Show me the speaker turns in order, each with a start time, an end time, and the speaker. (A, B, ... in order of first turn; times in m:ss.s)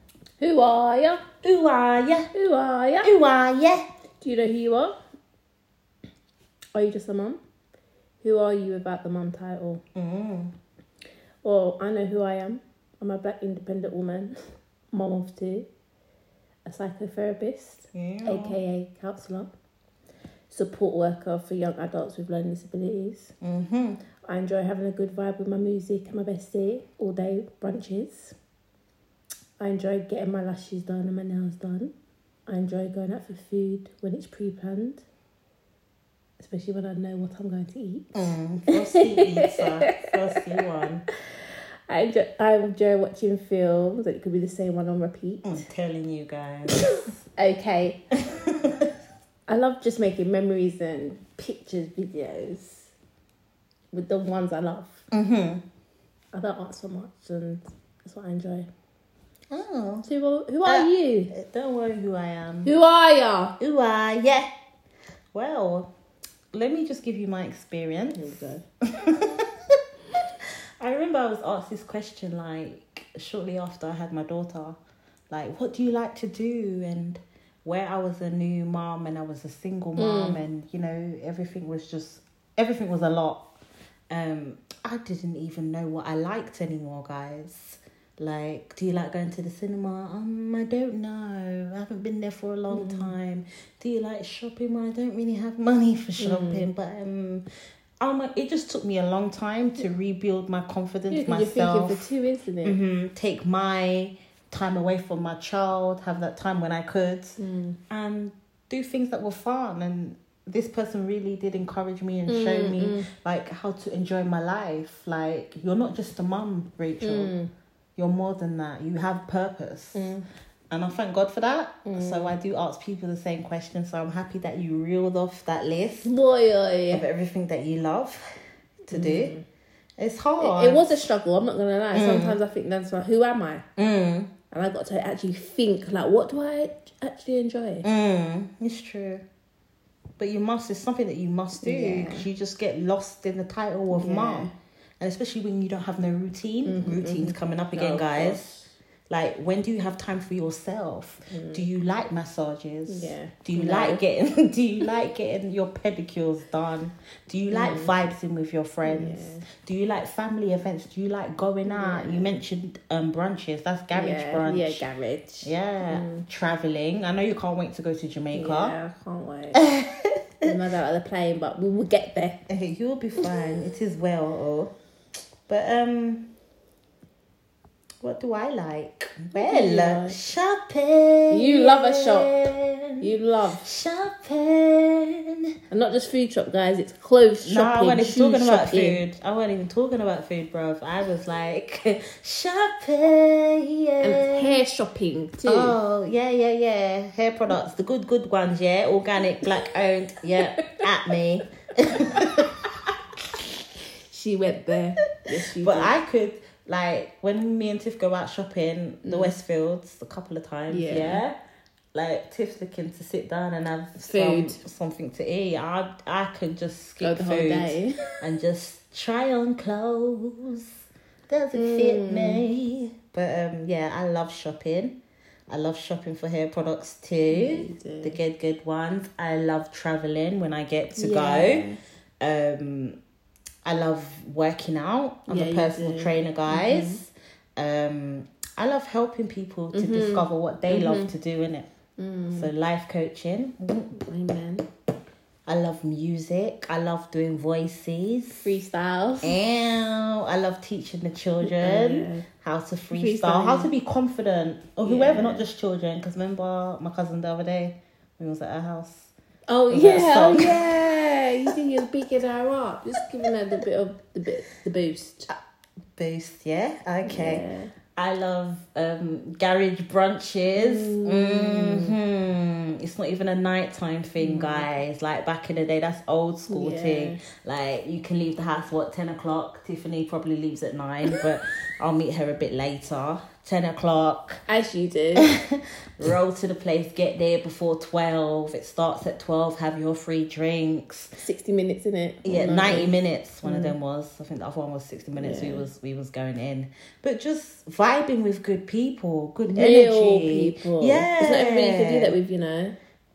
0:00.4-0:01.2 A
0:01.4-0:02.3 B
0:02.3-0:03.1 A
0:03.0-0:03.8 B
0:04.2-0:04.9 A
0:06.8-0:07.4 A
0:08.2-0:09.8 A
0:10.0-0:10.5 B
0:11.4-0:14.4 A
0:14.9-0:15.7 A
0:16.7-0:19.5 A
0:17.9-0:18.6 B
0:20.5-0:23.4 A
0:23.4-0:24.0 B
0:24.2-0:28.4 A
0:29.6-0:31.9 A
0:32.5-0:35.0 A
0:36.4-0:40.1 A
0:38.2-0:41.0 B
0:41.9-0:45.6 A
0:45.4-0:46.9 B
0:46.7-0:48.0 A
0:48.3-0:48.9 B
0:49.5-0:52.9 A
0:53.9-0:55.0 A
0:55.1-0:55.6 B
0:56.3-0:58.7 A
0:59.5-1:00.1 B
1:00.0-1:01.3 A
1:00.6-1:02.7 B
1:02.6-1:03.6 A
1:03.6-1:04.5 B
1:05.3-1:05.9 B
1:06.5-1:08.3 B
1:08.1-1:08.6 A
1:08.9-1:09.5 B
1:10.8-1:14.8 B
1:15.3-1:23.4 B
1:20.0-1:20.4 A
1:24.1-1:37.4 B
1:32.7-1:33.2 A
1:36.2-1:36.7 A
1:38.0-1:42.0 B
1:41.1-1:42.8 A
1:42.6-1:47.4 B
1:47.4-1:47.8 A
1:47.9-1:57.3 B
1:52.3-1:53.0 A
1:57.0-1:57.5 A
1:58.0-2:00.1 B
1:59.9-2:00.2 A
2:00.7-2:06.1 B
2:01.8-2:02.4 A
2:06.0-2:07.0 A
2:06.9-2:09.4 B
2:08.9-2:09.4 A
2:10.0-2:11.1 B
2:10.4-2:13.7 A
2:11.9-2:12.4 B
2:13.8-2:14.3 B
2:14.5-2:17.9 A
2:17.8-2:19.2 B
2:20.2-2:28.5 B
2:21.6-2:22.3 A
2:23.9-2:24.5 A
2:26.6-2:28.7 A
2:29.1-2:44.8 B
2:31.3-2:31.7 A
2:32.9-2:34.0 A
2:37.5-2:37.9 A
2:38.8-2:39.4 A
2:41.7-2:42.3 A
2:43.9-2:46.2 A
2:45.4-2:48.8 B
2:48.3-2:49.6 A
2:49.6-2:50.5 B
2:50.4-2:52.4 A
2:52.5-2:54.7 B
2:55.5-2:56.3 B
2:58.0-3:05.4 B
2:59.3-3:00.2 A
3:01.3-3:02.4 A
3:03.0-3:03.7 A
3:05.7-3:09.0 A
3:07.4-3:14.6 B
3:14.0-3:15.8 A
3:15.5-3:22.7 B
3:24.1-3:26.0 A
3:25.6-3:31.3 B
3:29.0-3:29.4 A
3:30.7-3:31.2 A
3:31.9-3:40.7 B
3:34.0-3:34.6 A
3:37.0-3:38.0 A
3:41.3-3:45.0 B
3:41.5-3:42.4 A
3:45.5-3:51.7 B
3:47.3-3:48.2 A
3:51.0-3:51.8 A
3:52.2-3:53.0 B
3:53.6-4:01.7 B
3:55.3-3:57.0 A
3:59.7-4:01.1 A
4:02.0-4:02.5 A
4:02.3-4:03.9 B
4:03.9-4:04.7 A
4:05.5-4:08.5 B
4:08.3-4:09.4 A
4:09.2-4:19.1 B
4:11.4-4:12.3 A
4:12.9-4:13.7 A
4:14.8-4:15.4 A
4:19.5-4:25.3 A
4:19.7-4:20.7 B
4:25.9-4:27.4 B
4:27.0-4:27.7 A
4:28.0-4:44.4 B
4:30.6-4:32.0 A
4:34.2-4:34.7 A
4:36.5-4:37.2 A
4:44.5-4:45.3 A
4:45.2-4:51.1 B
4:51.2-4:53.8 A
4:52.2-5:02.2 B
4:55.2-4:55.6 A
4:59.5-5:02.8 A